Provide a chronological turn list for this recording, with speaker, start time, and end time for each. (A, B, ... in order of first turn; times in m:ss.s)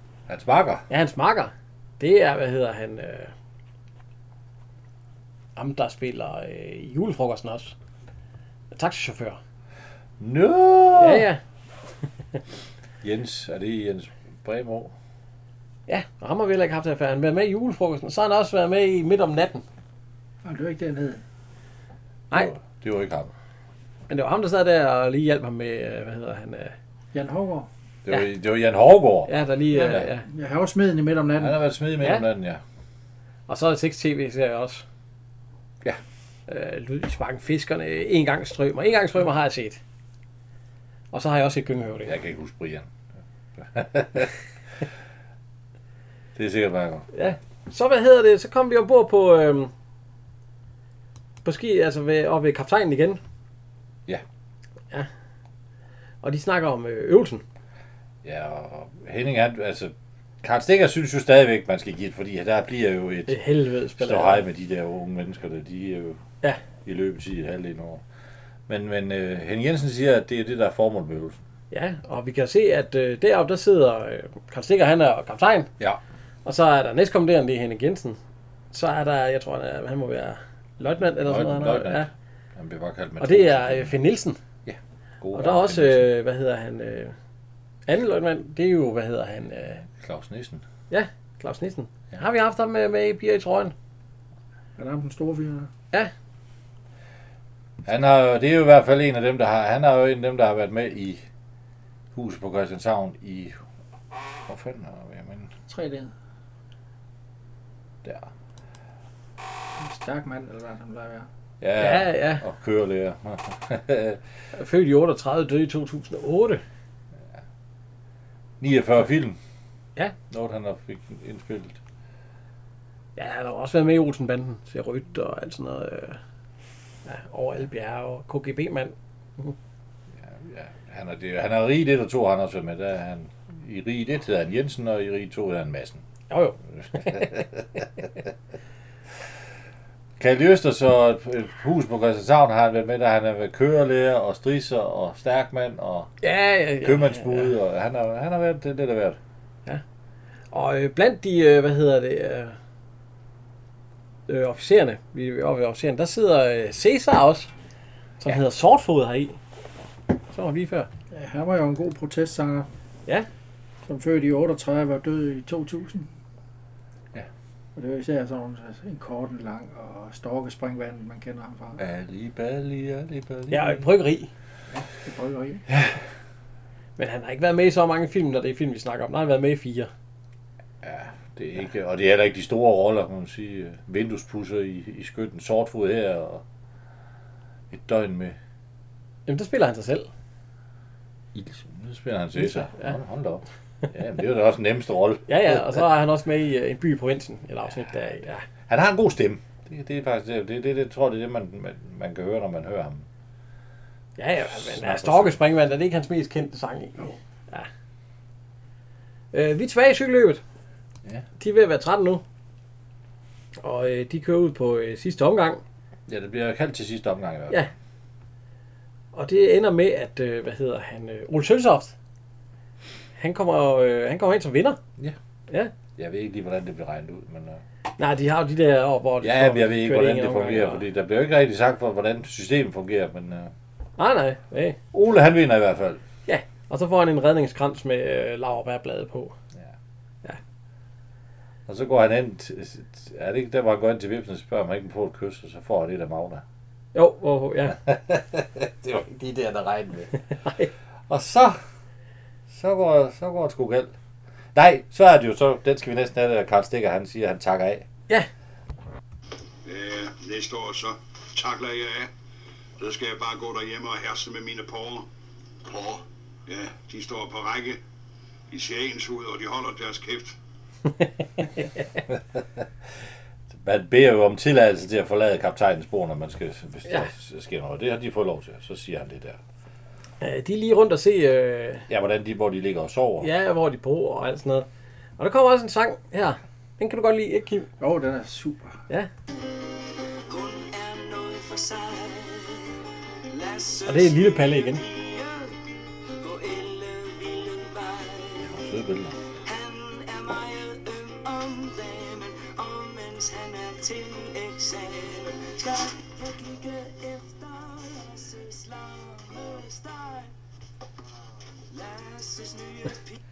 0:00.3-0:00.8 A
0:00.9-0:03.3 B
0:05.6-0:07.7 B
0:08.7-0:09.4 B
0:10.2-0:11.3 A
0:11.0-0:11.4 B
0:13.0-0:14.9 A
0:15.9-0:19.6 B
0:20.4-0:21.2 C
0:22.3-0:23.3 A
0:24.1-0:26.8 B
0:27.1-0:27.7 C
0:28.0-0:30.1 A
0:29.3-0:30.3 B
0:29.9-0:31.6 C
0:31.4-0:32.6 A
0:33.5-0:34.8 B
0:36.5-0:39.8 B
0:41.1-0:42.2 B
0:42.0-0:42.9 A
0:43.6-0:44.3 A
0:46.4-0:47.1 A
0:47.1-0:49.7 B
0:51.4-0:53.2 B
0:56.2-0:57.4 B
0:58.2-1:03.4 A
1:03.3-1:04.5 B
1:04.0-1:06.2 A
1:06.8-1:08.0 A
1:08.7-1:11.4 A
1:11.7-1:15.7 B
1:16.4-1:18.2 B
1:18.7-1:22.1 B
1:21.2-1:24.0 A
1:23.2-1:24.4 B
1:24.7-1:26.1 A
1:25.3-1:27.2 B
1:27.9-1:29.8 B
1:30.0-1:30.6 A
1:30.9-1:33.7 B
1:34.8-1:35.7 C
1:37.8-1:41.2 A
1:42.1-1:43.6 A
1:44.5-1:45.5 A
1:45.7-1:46.1 C
1:49.8-1:51.3 C
1:51.6-1:54.2 A
1:51.8-1:52.4 B
1:54.5-1:56.6 B
1:58.6-1:59.4 A
2:00.3-2:01.8 A
2:03.2-2:06.2 B
2:07.1-2:09.6 B
2:10.2-2:16.0 A
2:16.3-2:17.3 B
2:16.8-2:17.6 A
2:20.2-2:26.1 A
2:26.2-2:27.6 B
2:26.8-2:29.2 A
2:30.5-2:32.6 B
2:34.3-2:37.5 B
2:38.2-2:39.4 B
2:40.3-2:40.9 B
2:41.1-2:42.7 C
2:43.9-2:46.1 C
2:47.8-2:51.8 C
2:51.8-2:53.8 A
2:53.5-2:54.3 B
2:54.7-2:55.6 C
2:55.7-2:56.0 A
2:57.0-2:59.9 B
3:00.8-3:06.4 A
3:07.7-3:08.4 A
3:09.3-3:10.1 B
3:11.3-3:15.8 A
3:12.4-3:12.9 B
3:15.3-3:18.4 B
3:18.7-3:23.0 A
3:24.2-3:27.7 B
3:24.4-3:25.4 A
3:29.3-3:30.4 B
3:31.4-3:32.2 B
3:33.6-3:35.6 B
3:36.1-3:37.6 A
3:39.1-3:42.0 B
3:43.2-3:44.8 B
3:46.0-3:47.6 A
3:48.0-3:50.8 B
3:49.2-3:53.5 A
3:54.0-3:54.8 B
3:54.9-3:56.0 A
3:56.3-3:59.4 B
4:01.7-4:06.4 A
4:07.0-4:07.8 B
4:07.7-4:10.1 A
4:10.4-4:10.7 B
4:11.1-4:11.6 A
4:12.5-4:13.9 A
4:14.5-4:17.9 A
4:19.6-4:22.1 D
4:22.8-4:25.1 D
4:25.7-4:27.8 D
4:28.5-4:30.4 D
4:32.1-4:32.6 A
4:33.5-4:39.4 A
4:40.2-4:41.9 B
4:41.9-4:43.3 A
4:43.2-4:44.7 B
4:45.2-4:47.7 B
4:47.8-4:48.7 C
4:50.3-4:52.7 E
4:53.3-4:55.6 E
4:53.8-4:54.8 B
4:56.2-4:58.5 E
4:58.4-4:59.2 A
4:59.5-5:10.3 E
5:11.7-5:13.1 E